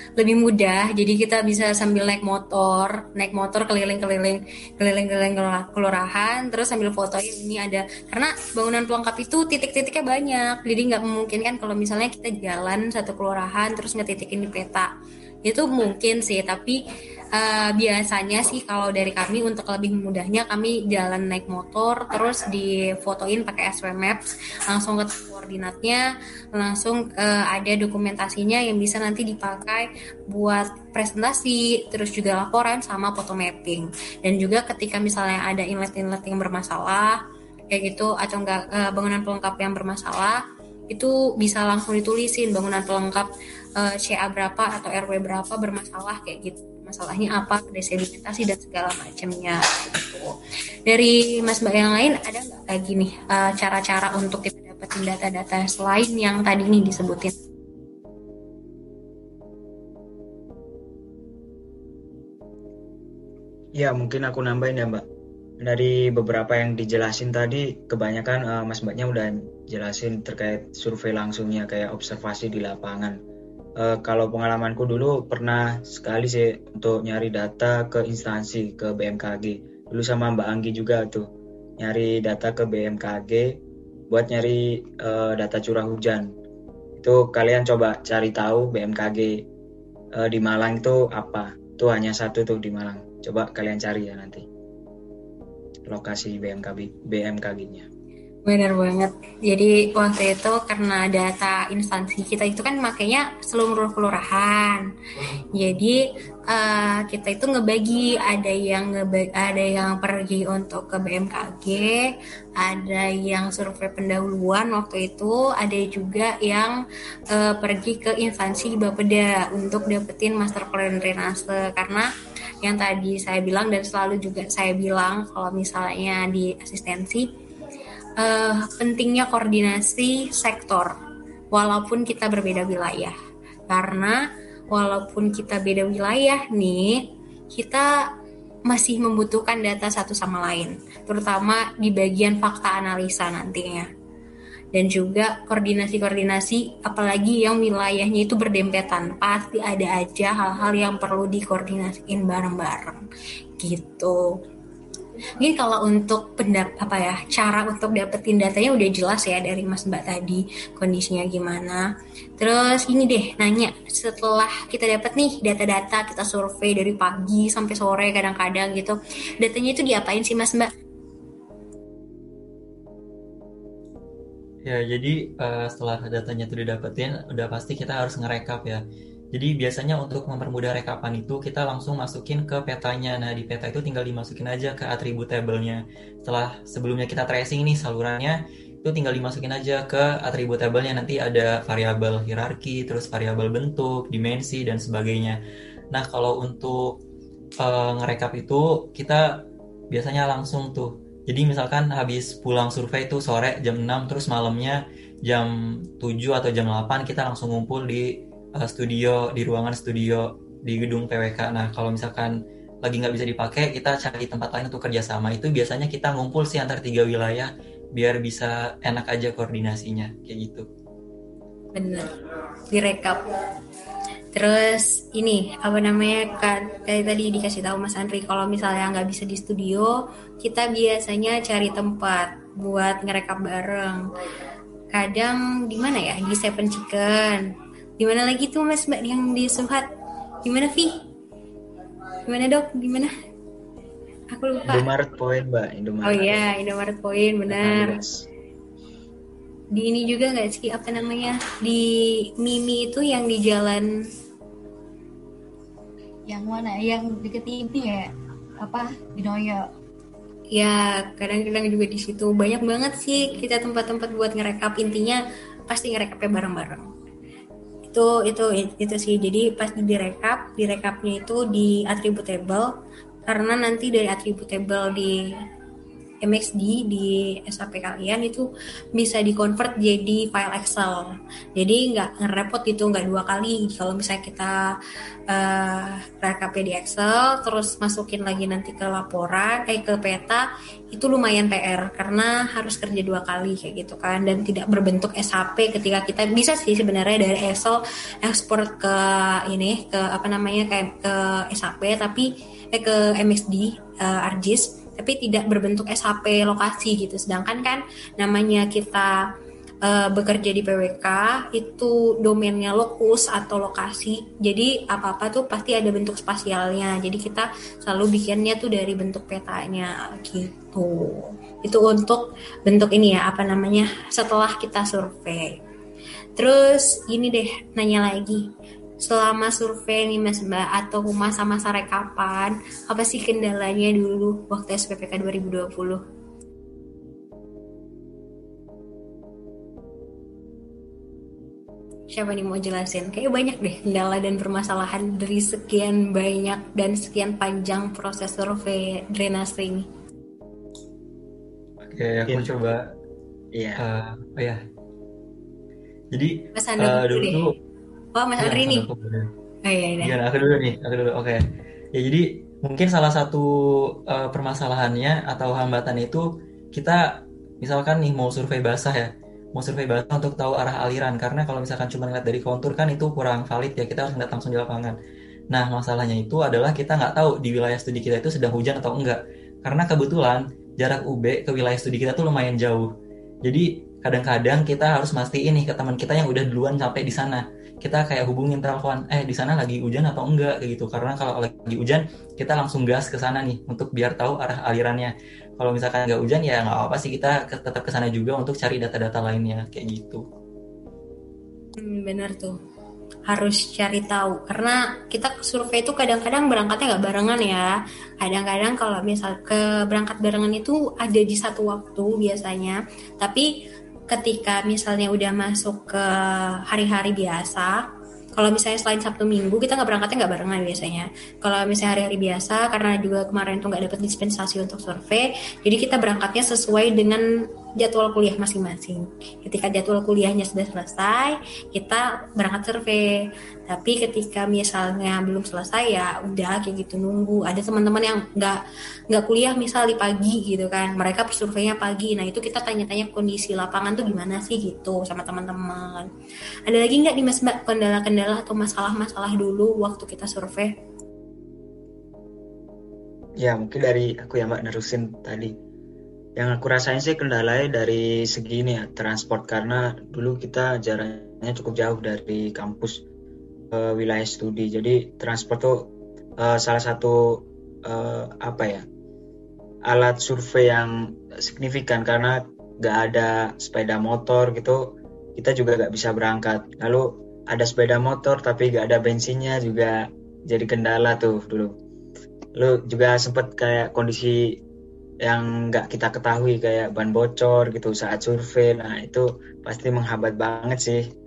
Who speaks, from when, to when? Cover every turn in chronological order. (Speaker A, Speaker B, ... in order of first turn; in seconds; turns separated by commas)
Speaker A: 0.2-14.9, Speaker A: 15.4-16.8, Speaker A: 17.4-37.2, Speaker A: 37.7-40.4, Speaker A: 40.9-50.3, Speaker A: 50.9-57.3, Speaker B: 63.8-65.0, Speaker B: 65.6-73.2, Speaker B: 73.8-81.2, Speaker B: 81.8-83.5, Speaker B: 84.1-86.3, Speaker B: 87.0-89.4, Speaker B: 90.2-94.5, Speaker B: 95.9-97.9, Speaker A: 98.5-104.9, Speaker A: 105.5-116.8, Speaker A: 117.3-122.1, Speaker A: 122.6-127.3, Speaker A: 128.2-130.9, Speaker A: 131.5-133.2, Speaker A: 133.7-137.9, Speaker A: 138.7-143.9, Speaker A: 144.7-153.0, Speaker A: 153.6-154.4, Speaker A: 155.4-161.9, Speaker A: 162.4-170.7, Speaker C: 174.6-178.8, Speaker C: 179.3-195.4, Speaker C: 195.9-196.9, Speaker C: 197.6-199.2, Speaker C: 199.9-212.3, Speaker C: 212.8-220.7, Speaker A: 221.7-222.2, Speaker A: 222.7-223.3, Speaker A: 224.3-234.2, Speaker A: 234.9-239.9, Speaker A: 240.4-241.0, Speaker A: 242.3-243.1, Speaker A: 244.3-244.9, Speaker B: 244.7-246.5, Speaker A: 246.0-248.0, Speaker B: 247.5-248.3, Speaker A: 249.8-253.9, Speaker D: 256.3-259.7, Speaker A: 260.5-266.9, Speaker A: 267.9-272.7, Speaker A: 273.3-275.2, Speaker A: 276.2-284.7, Speaker A: 285.3-309.1, Speaker A: 309.8-325.6, Speaker A: 326.4-328.5, Speaker A: 329.0-336.0, Speaker A: 342.1-349.9, Speaker C: 351.8-352.9, Speaker B: 353.6-353.8, Speaker C: 353.8-354.6, Speaker C: 356.1-357.6, Speaker A: 356.6-357.4, Speaker A: 358.1-358.9, Speaker C: 358.4-359.3, Speaker A: 359.6-360.2, Speaker C: 360.0-361.4, Speaker C: 361.9-363.4, Speaker C: 364.1-374.9, Speaker C: 375.5-382.9, Speaker C: 383.4-400.2, Speaker A: 401.8-402.6, Speaker A: 403.3-413.5, Speaker A: 414.1-417.8, Speaker A: 418.4-427.2, Speaker A: 427.8-446.1, Speaker A: 446.7-450.7, Speaker B: 453.4-455.6, Speaker B: 456.4-463.0, Speaker B: 463.7-465.9, Speaker B: 466.4-467.2, Speaker B: 467.9-468.9, Speaker B: 469.9-474.8, Speaker B: 475.4-481.7, Speaker B: 482.6-484.4, Speaker B: 485.2-491.0